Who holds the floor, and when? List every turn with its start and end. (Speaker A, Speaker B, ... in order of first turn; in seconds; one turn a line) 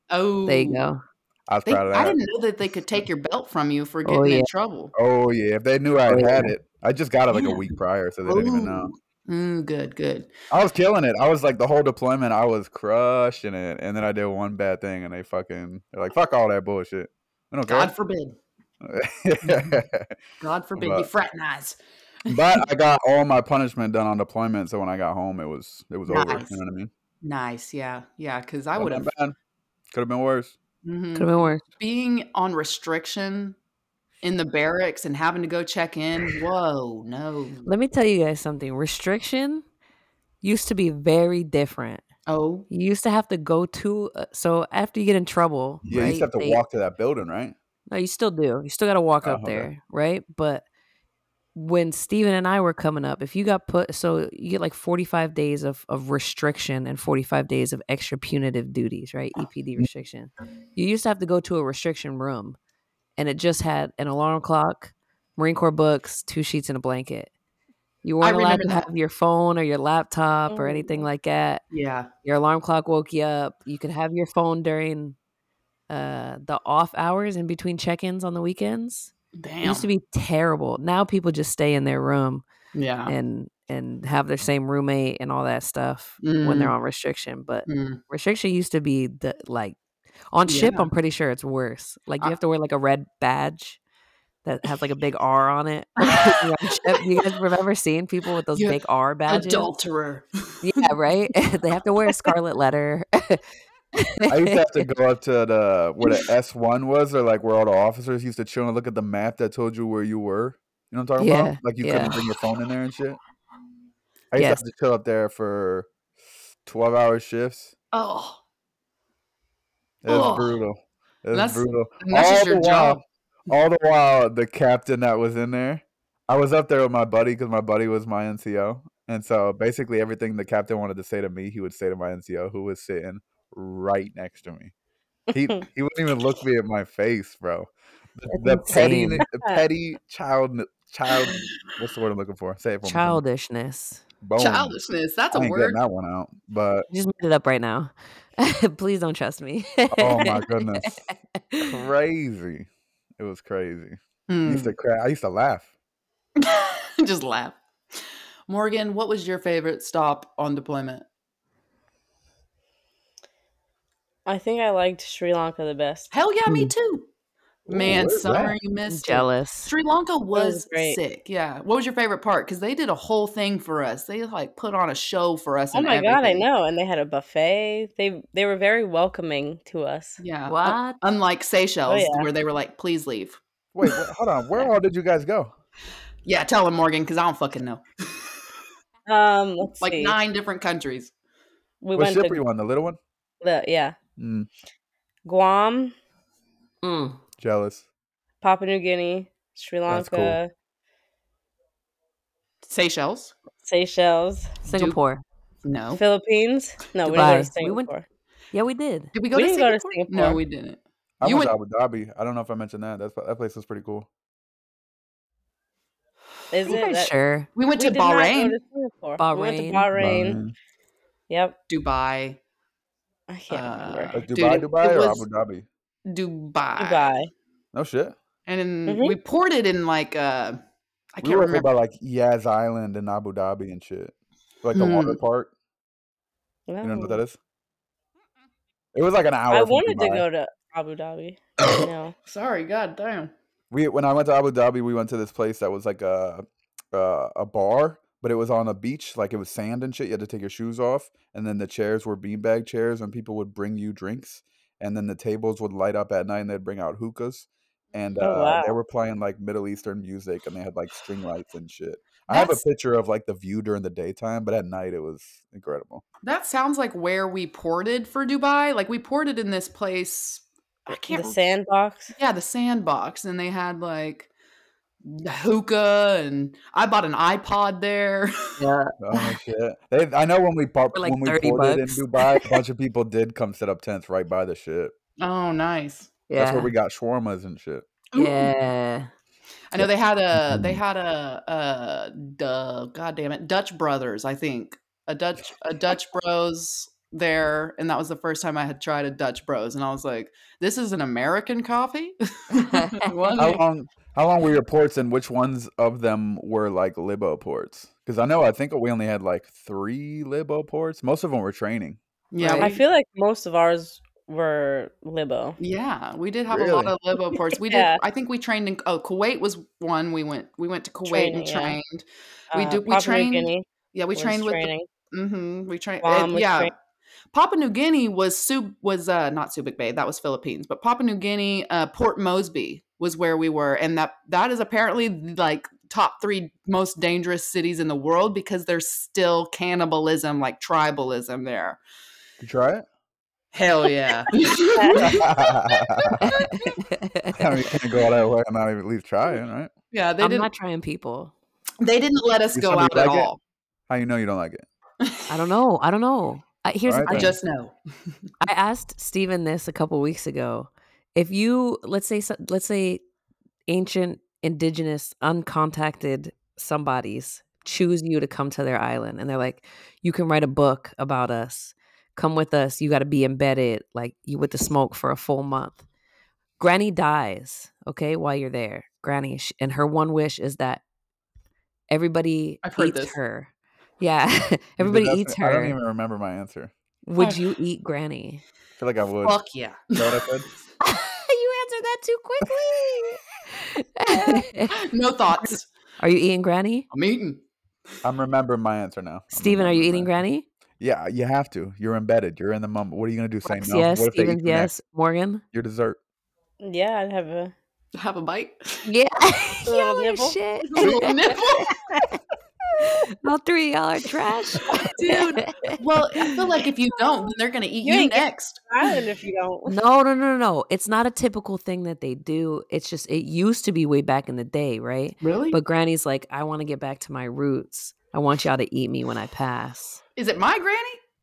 Speaker A: 0.1-0.8
Speaker B: 0.5-1.0
Speaker C: 1.5-2.2
Speaker A: 1.6-4.9
Speaker B: 4.0-4.5
Speaker C: 4.9-8.9
Speaker B: 6.1-6.5
Speaker A: 7.3-7.7
Speaker A: 8.2-10.3
Speaker C: 10.5-17.9
Speaker A: 17.7-18.4
Speaker C: 18.8-20.1
Speaker A: 19.4-19.8
Speaker A: 20.4-22.6
Speaker C: 20.8-21.1
Speaker C: 22.3-26.9
Speaker A: 26.1-26.6
Speaker A: 27.2-29.1
Speaker C: 28.8-29.3
Speaker C: 29.9-30.5
Speaker A: 30.8-33.5
Speaker B: 31.1-31.6
Speaker A: 34.2-37.7
Speaker B: 37.6-39.6
Speaker B: 40.4-42.0
Speaker A: 42.3-42.7
Speaker B: 42.7-46.6
Speaker C: 45.8-47.5
Speaker B: 47.9-50.6
Speaker C: 49.2-49.7
Speaker B: 51.5-62.6
Speaker B: 63.2-67.3
Speaker B: 68.0-71.6
Speaker A: 68.2-68.8
Speaker A: 70.5-70.9
Speaker A: 71.7-72.1
Speaker B: 72.2-75.2
Speaker B: 75.9-79.1
Speaker A: 79.4-79.9
Speaker B: 79.6-82.4
Speaker A: 82.7-83.1
Speaker B: 83.1-89.8
Speaker A: 86.2-86.7
Speaker A: 87.7-88.0
Speaker B: 90.3-93.8
Speaker A: 90.5-90.9
Speaker B: 94.4-99.7
Speaker A: 96.0-97.4
Speaker A: 98.5-100.9
Speaker B: 100.6-103.4
Speaker A: 102.0-102.3
Speaker B: 104.0-104.8
Speaker C: 104.3-113.2
Speaker B: 111.2-112.2
Speaker C: 114.3-115.9
Speaker B: 114.3-114.6
Speaker C: 116.7-117.7
Speaker A: 117.9-118.4
Speaker C: 120.0-134.7
Speaker A: 120.1-120.6
Speaker A: 121.3-123.0
Speaker C: 135.3-143.2
Speaker B: 138.3-139.2
Speaker D: 139.3-139.6
Speaker B: 142.8-144.0
Speaker C: 144.2-144.8
Speaker A: 144.4-145.8
Speaker C: 145.3-146.9
Speaker B: 146.9-151.8
Speaker C: 149.9-151.0
Speaker C: 151.6-155.7
Speaker A: 154.3-154.7
Speaker A: 156.4-157.6
Speaker A: 158.5-161.0
Speaker D: 164.2-166.1
Speaker A: 166.1-167.1
Speaker C: 167.7-168.5
Speaker A: 167.7-176.4
Speaker B: 168.9-169.7
Speaker D: 170.3-171.0
Speaker D: 175.7-180.2
Speaker A: 180.2-184.0
Speaker B: 180.5-181.0
Speaker D: 181.9-182.3
Speaker C: 183.7-185.5
Speaker A: 186.2-188.2
Speaker D: 189.1-190.2
Speaker A: 189.8-191.1
Speaker D: 191.8-192.4
Speaker C: 191.9-193.0
Speaker D: 193.4-193.9
Speaker C: 194.2-194.5
Speaker D: 195.2-195.9
Speaker B: 196.8-197.2
Speaker C: 197.4-197.8
Speaker D: 198.4-200.5
Speaker C: 199.9-200.4
Speaker A: 202.6-203.3
Speaker D: 203.6-204.6
Speaker A: 204.6-205.0
Speaker B: 204.7-205.2
Speaker A: 205.6-206.0
Speaker D: 205.9-208.0
Speaker B: 207.0-207.9
Speaker B: 208.5-209.1
Speaker A: 209.1-211.5
Speaker D: 209.3-210.4
Speaker C: 211.2-214.1
Speaker D: 216.5-217.1
Speaker B: 216.6-217.5
Speaker A: 217.6-218.6
Speaker D: 217.7-220.4
Speaker B: 219.2-219.9
Speaker C: 219.9-220.5
Speaker D: 221.3-221.6
Speaker A: 221.7-222.4
Speaker D: 223.3-224.6
Speaker A: 223.5-225.2
Speaker C: 224.1-225.7
Speaker A: 226.1-227.1
Speaker D: 226.8-227.3
Speaker C: 227.7-228.2
Speaker A: 228.5-230.6
Speaker D: 228.9-229.2
Speaker A: 231.1-231.7
Speaker C: 231.2-235.5
Speaker A: 234.7-235.2
Speaker D: 236.7-237.2
Speaker C: 236.8-237.4
Speaker C: 238.9-240.2
Speaker D: 239.5-242.1
Speaker A: 242.2-243.3
Speaker C: 243.7-266.0
Speaker D: 258.2-258.8
Speaker A: 262.3-262.6
Speaker A: 266.2-271.4
Speaker D: 271.1-272.1
Speaker A: 272.1-274.3
Speaker A: 275.0-278.6
Speaker B: 278.6-279.2
Speaker C: 279.0-284.9
Speaker B: 280.9-282.4
Speaker A: 285.2-286.1
Speaker B: 286.3-286.7
Speaker C: 286.4-287.9
Speaker A: 288.1-288.5
Speaker B: 288.1-289.1
Speaker A: 289.7-303.6
Speaker C: 289.8-290.8
Speaker B: 302.6-303.1
Speaker C: 303.4-312.0
Speaker A: 312.3-312.8
Speaker B: 312.4-312.7
Speaker D: 312.6-315.6
Speaker A: 315.6-326.7
Speaker C: 316.5-316.9
Speaker D: 317.5-318.0
Speaker D: 321.1-321.8
Speaker D: 322.5-323.6
Speaker D: 324.1-324.9
Speaker D: 326.0-326.7
Speaker A: 327.3-341.8
Speaker C: 342.4-342.8
Speaker A: 343.5-346.5
Speaker D: 344.7-345.1
Speaker C: 345.0-346.3
Speaker B: 346.2-347.5
Speaker C: 347.3-349.7
Speaker A: 349.9-350.5
Speaker B: 350.2-351.3
Speaker A: 351.8-353.4
Speaker C: 352.5-353.3
Speaker C: 353.9-354.6
Speaker A: 355.0-355.3
Speaker B: 355.3-357.4
Speaker C: 356.9-357.4
Speaker A: 357.0-357.7
Speaker B: 358.4-363.0
Speaker B: 363.7-375.8
Speaker B: 376.6-380.8
Speaker B: 381.9-385.7
Speaker A: 382.6-383.2
Speaker C: 384.8-386.7
Speaker B: 387.0-388.4
Speaker A: 387.2-387.5
Speaker C: 388.8-389.4
Speaker A: 389.2-390.3
Speaker C: 389.9-390.4
Speaker B: 390.8-394.8
Speaker A: 394.7-395.7
Speaker B: 395.4-396.9
Speaker A: 396.9-397.4
Speaker C: 398.0-400.1
Speaker B: 399.3-400.4
Speaker C: 400.8-404.7
Speaker B: 403.4-405.4
Speaker C: 405.5-406.0
Speaker D: 406.6-407.5
Speaker A: 407.9-408.9
Speaker B: 408.9-411.4
Speaker D: 409.6-410.4
Speaker A: 410.7-411.8
Speaker B: 412.8-416.3
Speaker A: 414.8-418.6
Speaker D: 417.8-419.8
Speaker B: 419.7-430.0
Speaker A: 425.2-425.6
Speaker A: 430.1-431.0